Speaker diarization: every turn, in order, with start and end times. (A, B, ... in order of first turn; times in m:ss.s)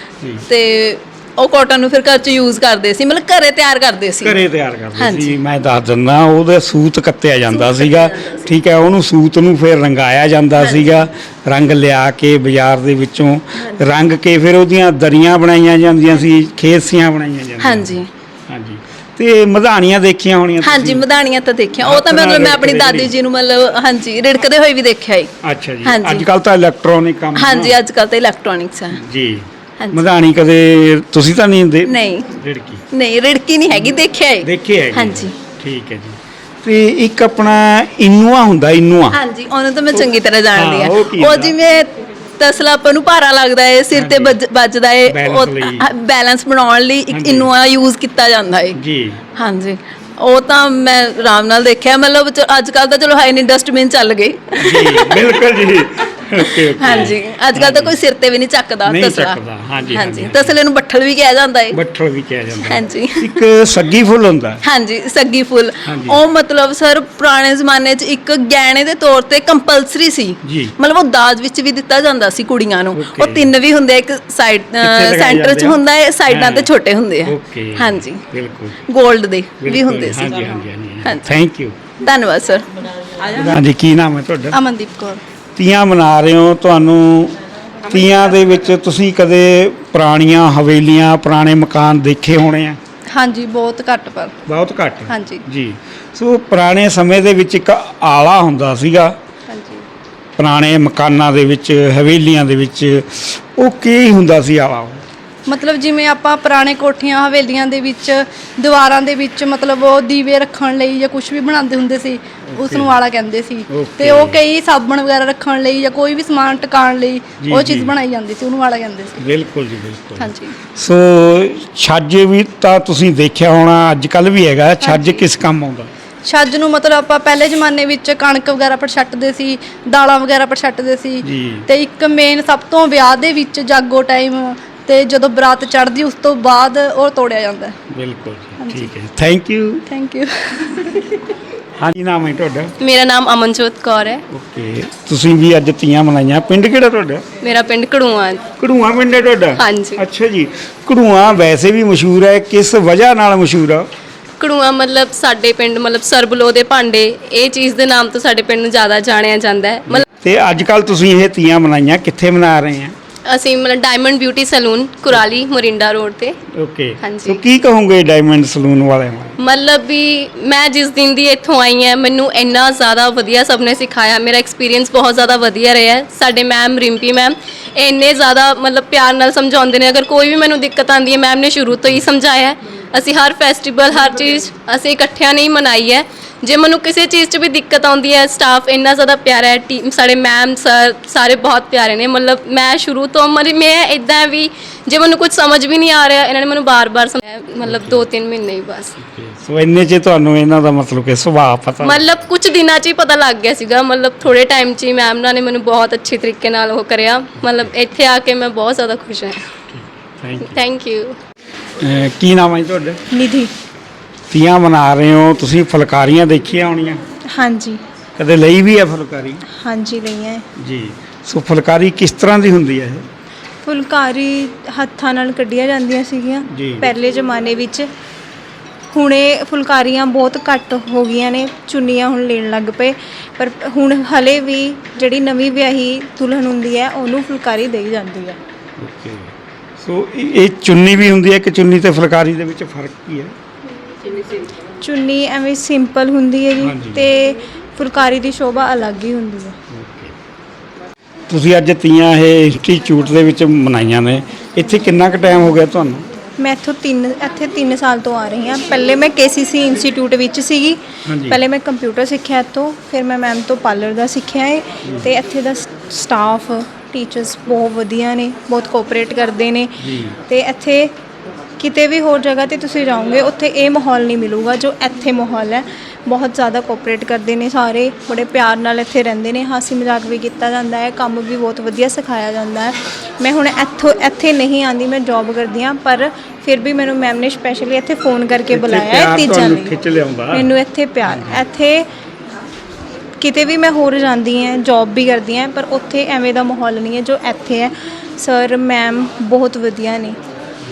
0:00.5-0:04.4 A
0:04.2-0:21.0 B
0:05.0-0:05.3 A
0:07.5-0:08.5 A
0:10.6-0:11.0 A
0:13.6-0:13.9 A
0:17.6-0:18.1 A
0:20.6-0:25.3 A
0:21.8-0:23.1 B
0:25.4-0:27.8 B
0:25.8-0:26.2 A
0:27.3-0:29.0 A
0:28.9-0:32.8 B
0:29.8-0:30.0 A
0:31.8-0:32.3 A
0:32.9-0:35.3 A
0:33.7-0:39.2 B
0:39.1-0:48.8 A
0:39.9-0:41.5 B
0:43.9-0:44.4 B
0:45.1-0:45.9 B
0:47.1-0:47.5 B
0:48.8-0:49.2 B
0:49.3-0:55.2 A
0:54.6-0:58.0 B
0:56.4-0:59.4 A
0:58.8-1:00.6 B
0:59.9-1:01.8 A
1:01.7-1:04.6 B
1:02.6-1:03.4 A
1:04.6-1:18.2 A
1:05.8-1:06.2 B
1:10.4-1:10.8 B
1:12.9-1:13.5 B
1:14.8-1:16.7 B
1:17.2-1:18.8 B
1:18.9-1:20.4 A
1:19.6-1:21.9 B
1:21.0-1:21.4 A
1:22.0-1:22.7 A
1:23.3-1:24.6 B
1:24.5-1:25.2 C
1:25.6-1:32.8 B
1:33.1-1:34.3 C
1:34.5-1:39.1 B
1:35.1-1:35.4 C
1:39.5-1:39.8 C
1:40.4-1:45.0 B
1:45.5-1:59.2 C
1:52.5-1:53.0 B
1:53.7-1:54.4 B
1:57.4-1:58.0 B
1:59.2-2:05.9 B
2:00.2-2:00.5 C
2:04.8-2:05.2 C
2:06.2-2:17.8 C
2:11.2-2:11.7 B
2:17.9-2:19.8 B
2:18.6-2:18.9 C
2:19.9-2:21.1 C
2:21.8-2:22.7 B
2:22.8-2:24.2 D
2:24.3-2:27.2 B
2:27.4-2:28.4 D
2:28.6-2:33.9 B
2:29.6-2:30.0 D
2:34.4-2:40.0 D
2:39.9-2:42.9 B
2:43.2-2:46.4 D
2:46.5-2:49.3 B
2:47.0-2:47.4 D
2:49.4-3:18.9 D
3:17.6-3:18.0 B
3:19.0-3:22.0 B
3:21.8-3:29.4 D
3:29.7-3:30.6 B
3:30.4-3:31.1 D
3:31.8-3:33.0 B
3:33.1-3:33.5 E
3:34.3-3:37.0 B
3:37.3-3:37.8 E
3:38.2-3:39.4 B
3:39.5-3:40.4 E
3:40.6-3:43.0 B
3:43.6-3:47.9 E
3:46.5-3:46.9 B
3:48.9-3:58.4 E
3:58.8-4:03.3 B
4:04.8-4:09.5 E
4:06.6-4:07.1 B
4:09.7-4:10.1 B
4:11.3-4:16.1 B
4:16.4-4:30.9 E
4:21.1-4:21.4 B
4:29.8-4:30.2 B
4:31.6-4:49.7 E
4:48.5-4:50.5 B
4:50.3-4:51.8 E
4:51.1-4:51.4 B
4:53.2-5:00.2 E